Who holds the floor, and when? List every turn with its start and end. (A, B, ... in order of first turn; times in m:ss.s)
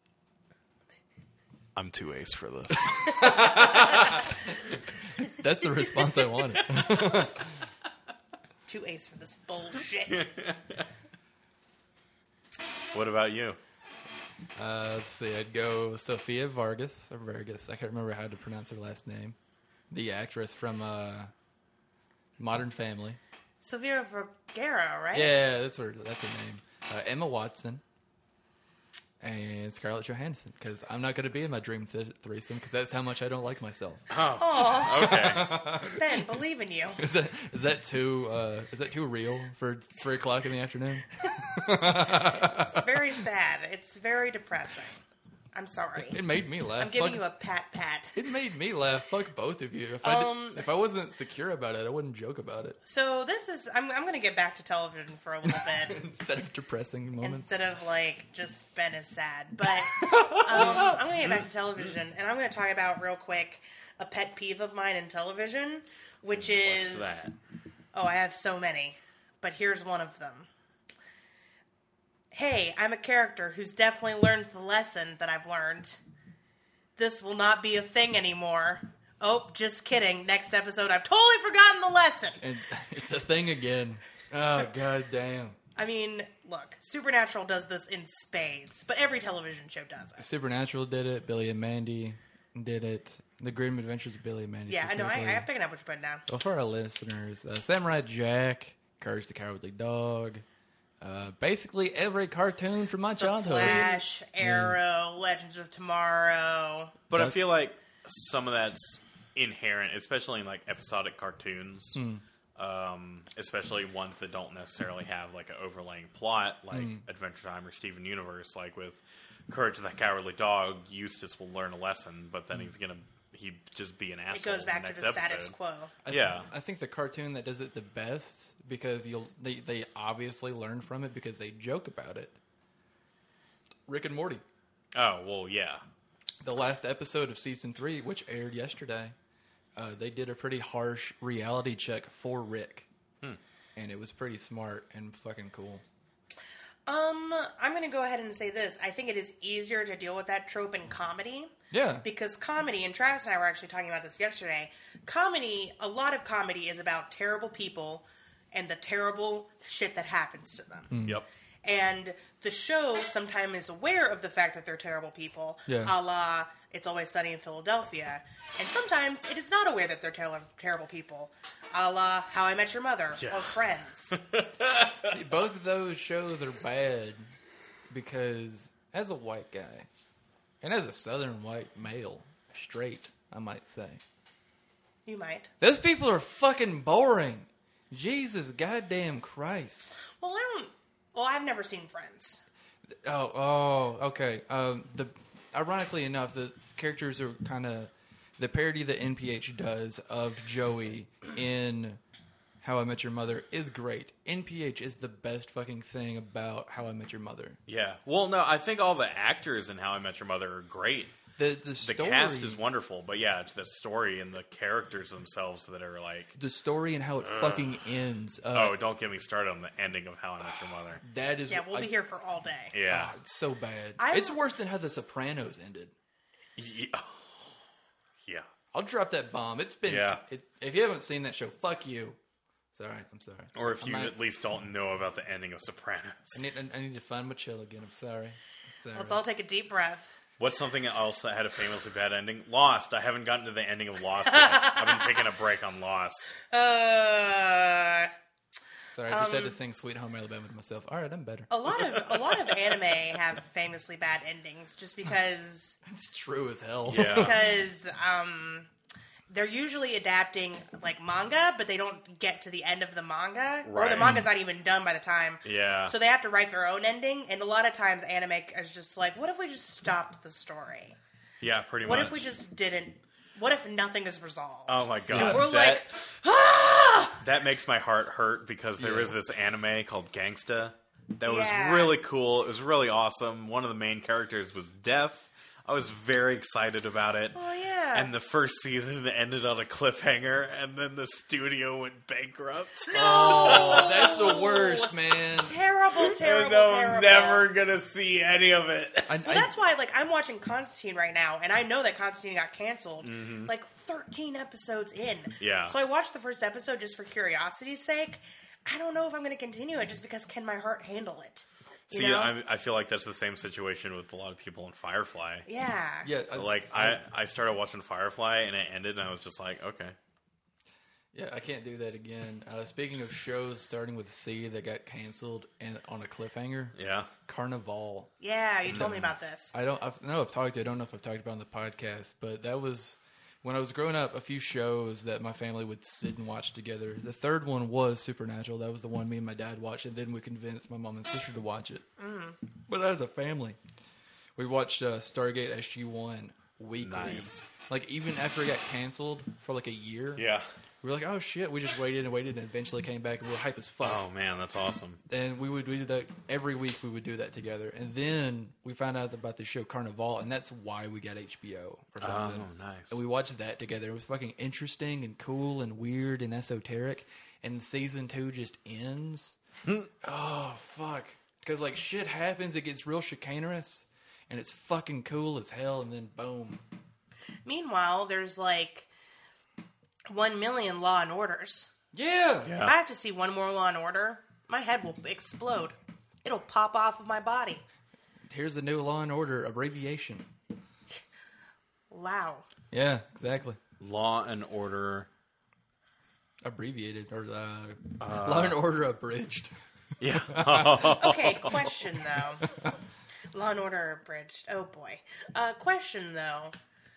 0:01.8-0:03.3 A
0:02.7-0:07.5 B
0:08.7-0:10.3 C
0:10.1-0:10.9 A
0:12.9-0:13.6 A
0:14.6-0:19.4 B
0:19.9-0:21.3 B
0:22.4-0:23.2 B
0:23.6-0:25.4 C
0:25.1-0:27.8 B
0:29.2-0:34.0 B
0:34.1-0:35.5 A
0:34.4-0:37.0 C
0:34.9-0:36.2 B
0:37.0-0:43.0 B
0:41.6-0:45.0 C
0:45.5-0:46.2 C
0:46.0-0:47.2 B
0:46.8-0:48.2 C
0:48.2-0:52.8 B
0:50.0-0:50.7 C
0:52.8-0:56.0 C
0:55.5-0:57.6 B
0:57.2-1:07.2 C
0:59.8-1:01.0 B
1:01.2-1:01.9 A
1:06.3-1:07.3 A
1:07.9-1:10.5 C
1:12.3-1:16.0 C
1:17.0-1:22.4 C
1:22.4-1:25.6 B
1:25.8-1:30.2 C
1:30.2-1:35.5 B
1:34.7-1:36.2 C
1:36.3-1:40.4 B
1:41.0-1:44.8 B
1:43.2-1:47.0 C
1:47.1-1:52.0 A
1:47.1-1:47.4 B
1:51.9-1:52.2 B
1:52.6-2:05.6 A
1:56.7-1:57.0 B
2:04.3-2:05.9 C
2:06.0-2:12.4 B
2:06.1-2:06.5 A
2:13.9-2:14.4 B
2:14.9-2:15.8 A
2:16.4-2:19.1 B
2:19.8-2:22.9 B
2:23.8-2:25.8 B
2:26.9-2:31.5 C
2:31.7-2:32.1 B
2:32.0-2:40.9 C
2:40.9-2:41.2 B
2:41.6-2:54.2 C
2:45.7-2:45.9 B
2:53.2-2:55.1 A
2:55.1-2:57.3 B
2:57.9-2:59.9 B
3:00.6-3:04.0 B
3:05.1-3:05.5 C
3:05.6-3:09.9 B
3:10.2-3:12.4 C
3:13.0-3:22.0 B
3:22.6-3:27.6 B
3:27.7-3:31.2 A
3:31.4-3:32.6 B
3:31.8-3:36.4 A
3:36.4-3:38.8 B
3:37.2-3:37.9 A
3:38.5-3:41.0 A
3:41.0-3:41.9 B
3:41.5-3:42.8 C
3:42.7-3:43.2 A
3:42.9-3:45.9 B
3:44.0-3:44.4 C
3:46.6-3:47.6 A
3:48.7-3:52.2 B
3:49.9-3:50.2 A
3:52.7-3:54.2 B
3:53.6-3:56.4 A
3:56.4-3:59.2 B
3:59.0-4:00.1 C
4:00.4-4:06.4 A
4:04.3-4:05.2 C
4:06.5-4:08.1 C
4:08.9-4:11.5 B
4:09.1-4:09.6 C
4:11.5-4:15.8 C
4:15.9-4:17.4 B
4:16.8-4:17.4 A
4:16.9-4:18.7 C
4:19.3-4:31.0 C
4:23.7-4:24.3 A
4:24.0-4:24.3 B
4:25.4-4:26.0 A
4:31.4-4:32.3 A
4:31.8-4:37.2 C
4:34.7-4:35.8 A
4:35.1-4:35.5 B
4:37.2-4:47.4 A
4:38.8-4:39.2 B
4:41.2-4:42.0 C
4:47.3-4:48.1 C
4:47.9-4:54.2 A
4:52.9-4:57.5 C
4:52.9-4:55.6 B
4:56.0-4:59.2 A
4:59.1-4:59.5 B
4:59.2-5:12.3 C
5:03.0-5:03.5 A
5:05.4-5:05.8 A
5:11.9-5:15.5 A
5:15.5-5:16.1 C
5:16.0-5:17.0 B
5:16.3-5:20.0 A
5:21.1-5:28.1 B
5:26.8-5:27.1 A
5:28.2-5:29.5 C
5:28.7-5:29.0 A
5:28.7-5:41.9 B
5:42.0-5:42.4 C
5:42.7-5:43.6 B
5:44.4-5:50.3 B
5:46.8-5:47.4 A
5:50.2-5:50.5 A
5:50.8-5:54.0 B
5:53.8-5:55.0 A
5:55.1-6:09.4 B
6:02.0-6:03.0 A
6:10.0-6:16.6 B
6:17.4-6:18.9 C
6:20.1-6:21.7 C
6:21.9-6:22.6 B
6:22.4-6:22.8 A
6:22.6-6:27.6 C
6:28.3-6:30.3 B
6:31.9-6:32.5 C
6:32.7-6:33.6 B
6:33.8-6:35.1 A
6:36.4-6:39.5 B
6:38.0-6:38.6 A
6:40.0-6:41.7 A
6:40.1-6:41.0 B
6:40.8-6:42.4 C
6:42.4-6:42.7 B
6:43.3-6:46.6 C